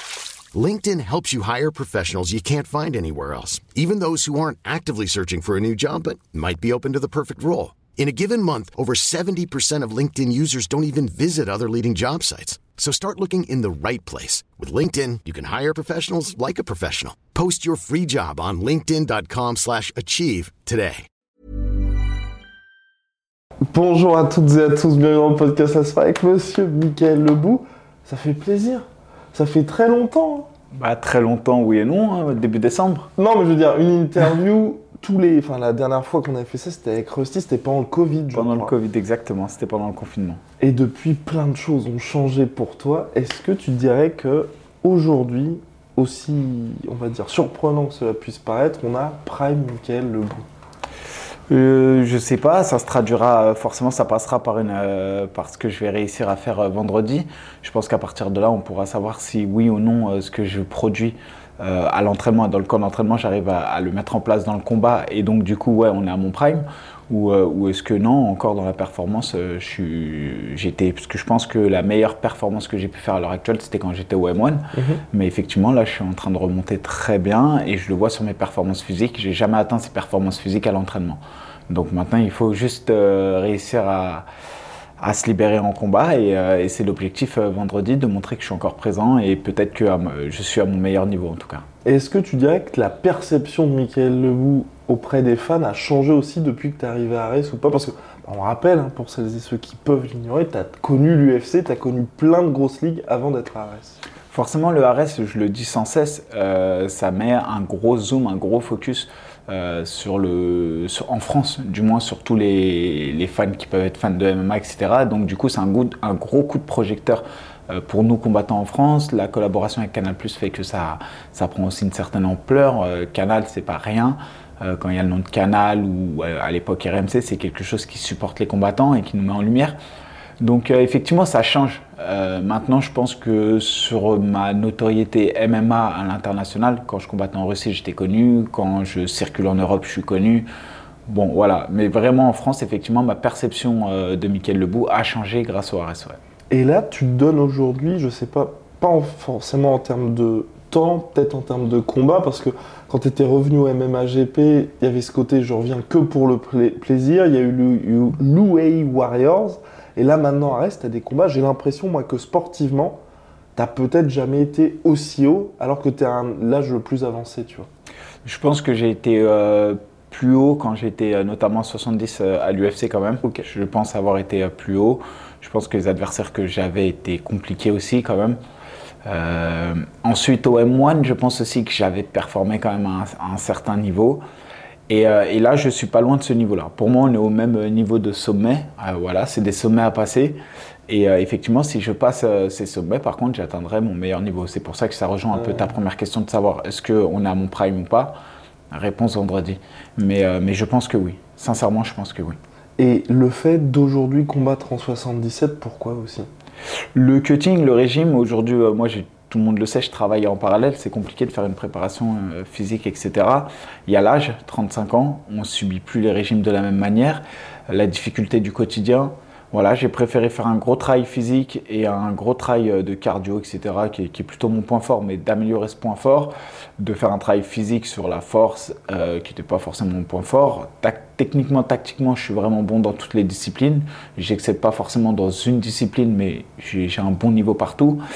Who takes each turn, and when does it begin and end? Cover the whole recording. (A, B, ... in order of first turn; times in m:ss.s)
0:00.5-0:21.1 A
0:23.7-0:30.5 B
0:30.7-0:33.1 C
0:33.2-0:38.7 B
0:38.3-0:40.4 C
0:40.6-0:50.5 B
0:51.5-1:24.3 C
1:14.7-1:15.0 B
1:25.0-1:31.6 C
1:31.8-1:44.0 B
1:44.3-2:09.8 C
2:10.4-2:20.5 C
2:21.0-2:26.2 C
2:26.5-2:43.0 B
2:43.6-2:47.7 B
2:48.2-2:58.4 C
2:59.0-3:04.2 C
3:04.9-3:18.2 C
3:15.3-3:15.7 B
3:18.7-3:22.4 C
3:22.8-3:26.3 B
3:26.9-3:58.0 C